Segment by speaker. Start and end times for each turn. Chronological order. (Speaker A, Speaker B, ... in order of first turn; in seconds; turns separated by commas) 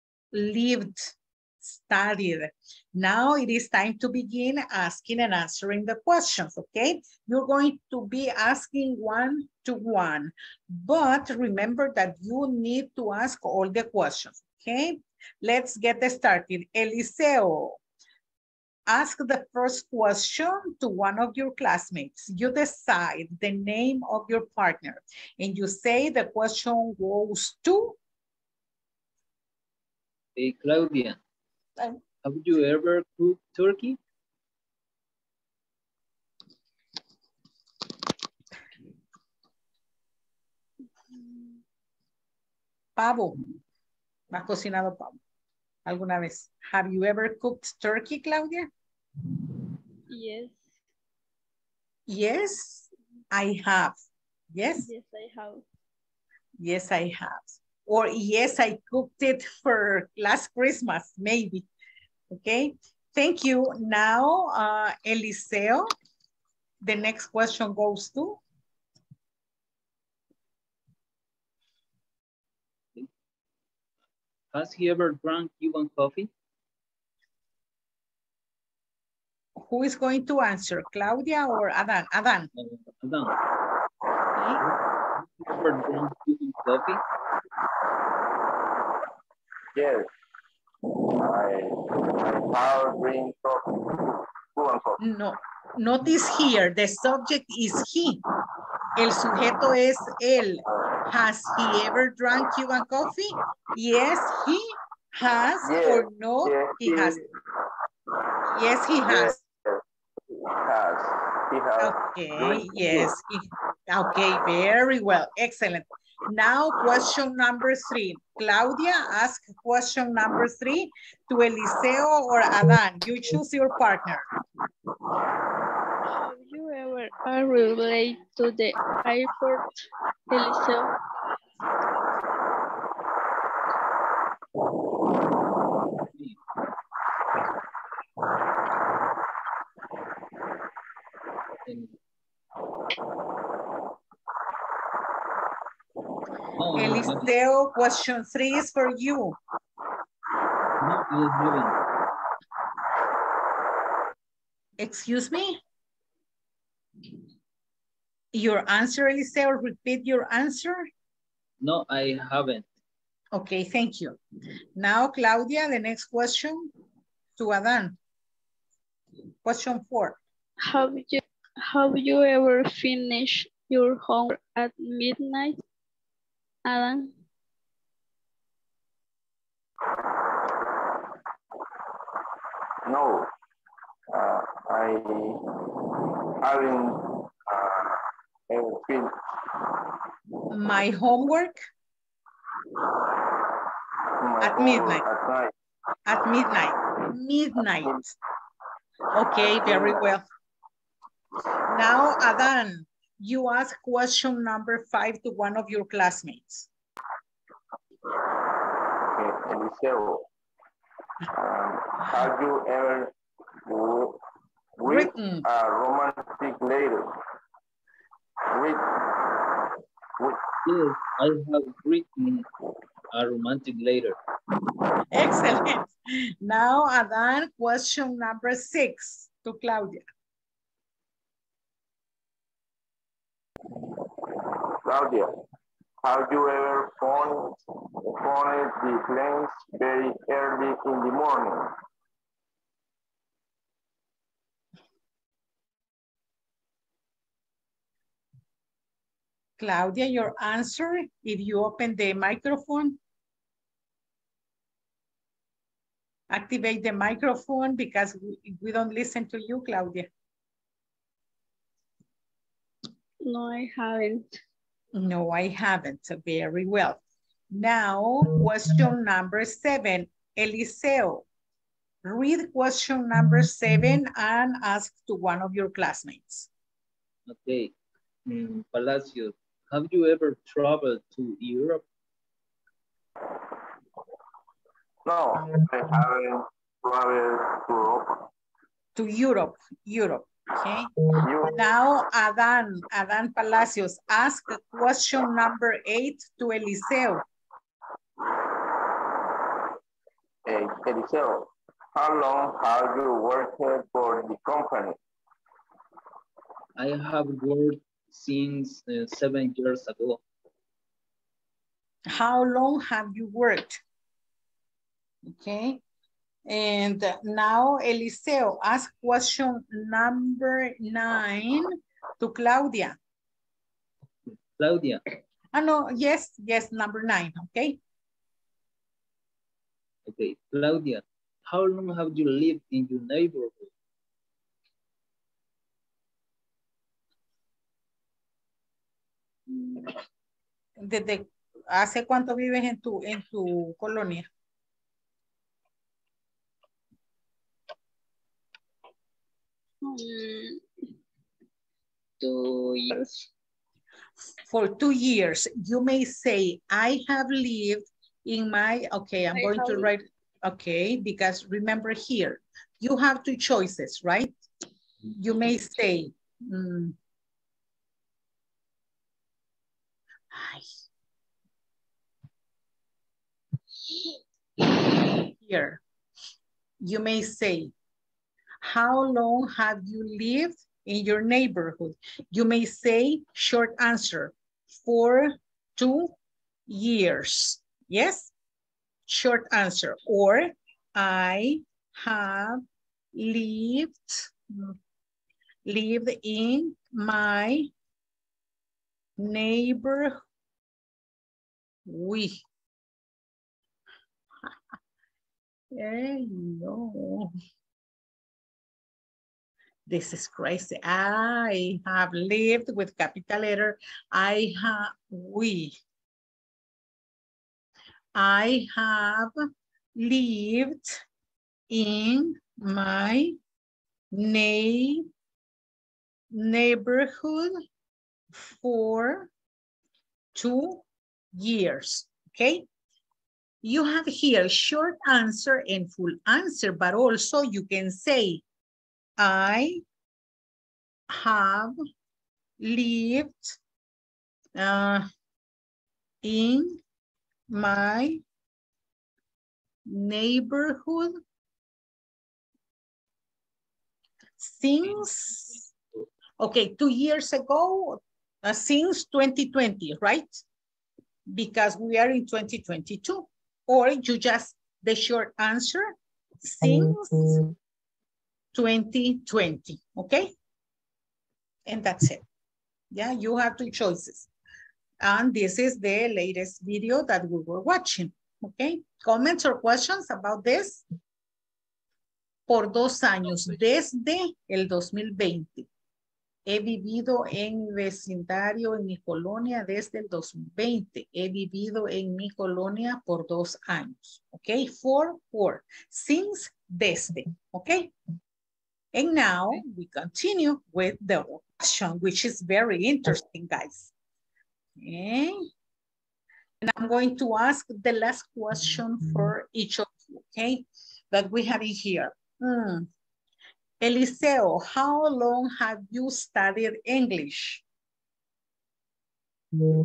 Speaker A: 0.3-17.8, Speaker A: 18.9-28.0, Speaker B: 30.4-31.2, Speaker B: 32.2-34.0, Speaker C: 41.1-41.6, Speaker A: 43.0-43.6, Speaker A: 44.3-45.2, Speaker A: 45.9-48.7, Speaker C: 50.1-50.7, Speaker A: 52.1-54.0, Speaker A: 54.5-54.9, Speaker C: 54.8-55.6, Speaker A: 56.6-61.7, Speaker A: 62.3-65.9, Speaker A: 66.8-68.4, Speaker B: 74.5-76.3, Speaker A: 79.6-82.5, Speaker B: 82.5-83.3, Speaker A: 84.4-84.6, Speaker B: 84.6-87.0, Speaker D: 89.8-90.1, Speaker D: 91.1-95.0, Speaker A: 95.0-98.2, Speaker A: 99.0-107.2, Speaker D: 100.7-101.0, Speaker D: 105.6-107.3, Speaker A: 108.5-109.4, Speaker D: 109.0-113.1, Speaker A: 111.8-124.2, Speaker C: 126.2-129.7, Speaker C: 130.3-130.9, Speaker B: 136.1-136.4, Speaker B: 141.7-142.0, Speaker B: 146.6-147.3, Speaker A: 146.8-149.4, Speaker B: 150.8-151.7, Speaker A: 154.8-155.6, Speaker A: 158.3-160.8, Speaker B: 161.6-162.7, Speaker A: 163.3-164.2, Speaker A: 164.8-166.7, Speaker A: 167.4-168.0, Speaker A: 169.4-170.2, Speaker C: 170.6-175.6, Speaker C: 176.7-177.1, Speaker D: 182.9-183.3, Speaker D: 184.1-185.4, Speaker D: 186.4-189.2, Speaker A: 190.5-191.6, Speaker D: 194.2-195.5, Speaker A: 194.4-195.0, Speaker A: 196.1-198.1, Speaker D: 197.7-198.1, Speaker A: 199.1-200.3, Speaker D: 199.3-200.1, Speaker A: 201.7-206.7, Speaker D: 209.0-210.3, Speaker D: 211.3-213.1, Speaker D: 213.7-214.2, Speaker D: 214.8-217.2, Speaker A: 214.9-215.4, Speaker D: 218.5-219.0, Speaker D: 220.2-220.5, Speaker B: 220.6-222.5, Speaker B: 223.1-224.2, Speaker A: 225.1-230.0, Speaker D: 234.8-235.3, Speaker D: 236.0-241.7, Speaker A: 249.6-253.0, Speaker A: 256.3-260.1, Speaker C: 263.2-264.4, Speaker A: 264.9-271.3, Speaker A: 272.0-276.5, Speaker B: 277.3-277.8, Speaker B: 278.3-281.8, Speaker D: 285.1-288.3, Speaker A: 289.0-290.9, Speaker D: 291.2-291.5, Speaker A: 291.5-297.2, Speaker D: 300.5-305.0, Speaker B: 306.8-310.2, Speaker A: 312.1-313.8, Speaker A: 315.3-315.8, Speaker A: 316.5-323.0, Speaker B: 324.3-325.0, Speaker A: 325.5-327.8, Speaker B: 330.1-333.7, Speaker C: 339.5-339.9, Speaker A: 340.8-344.3, Speaker C: 349.8-350.6, Speaker C: 352.2-353.3, Speaker A: 354.5-364.4, Speaker C: 359.4-359.9, Speaker A: 365.1-367.0, Speaker A: 370.3-370.6, Speaker A: 375.2-375.8, Speaker A: 376.8-377.7, Speaker A: 378.6-386.1, Speaker A: 386.7-388.3, Speaker A: 389.1-392.6, Speaker A: 393.1-394.8, Speaker A: 395.7-397.7, Speaker A: 399.2-400.2, Speaker A: 401.9-402.4, Speaker A: 405.7-407.3, Speaker A: 409.9-415.8, Speaker A: 418.2-419.3, Speaker A: 420.0-421.0, Speaker A: 421.7-423.4, Speaker A: 424.1-425.1, Speaker A: 426.3-427.6, Speaker A: 428.3-429.3, Speaker A: 430.3-430.8, Speaker A: 431.4-432.7, Speaker A: 433.6-438.4, Speaker A: 439.2-439.8, Speaker A: 441.1-441.8, Speaker A: 442.6-443.6, Speaker A: 444.6-445.1, Speaker A: 446.2-446.8, Speaker A: 447.5-448.2, Speaker A: 449.9-451.2, Speaker A: 454.4-455.6, Speaker A: 456.4-460.4, Speaker A: 461.3-467.5, Speaker A: 468.5-470.3, Speaker A: 471.7-472.2, Speaker A: 472.9-474.3, Speaker A: 475.0-480.9, Speaker A: 482.5-485.7, Speaker A: 486.5-497.9, Speaker A: 498.9-503.9, Speaker A: 504.8-505.4, Speaker A: 506.6-512.9, Speaker A: 513.8-517.6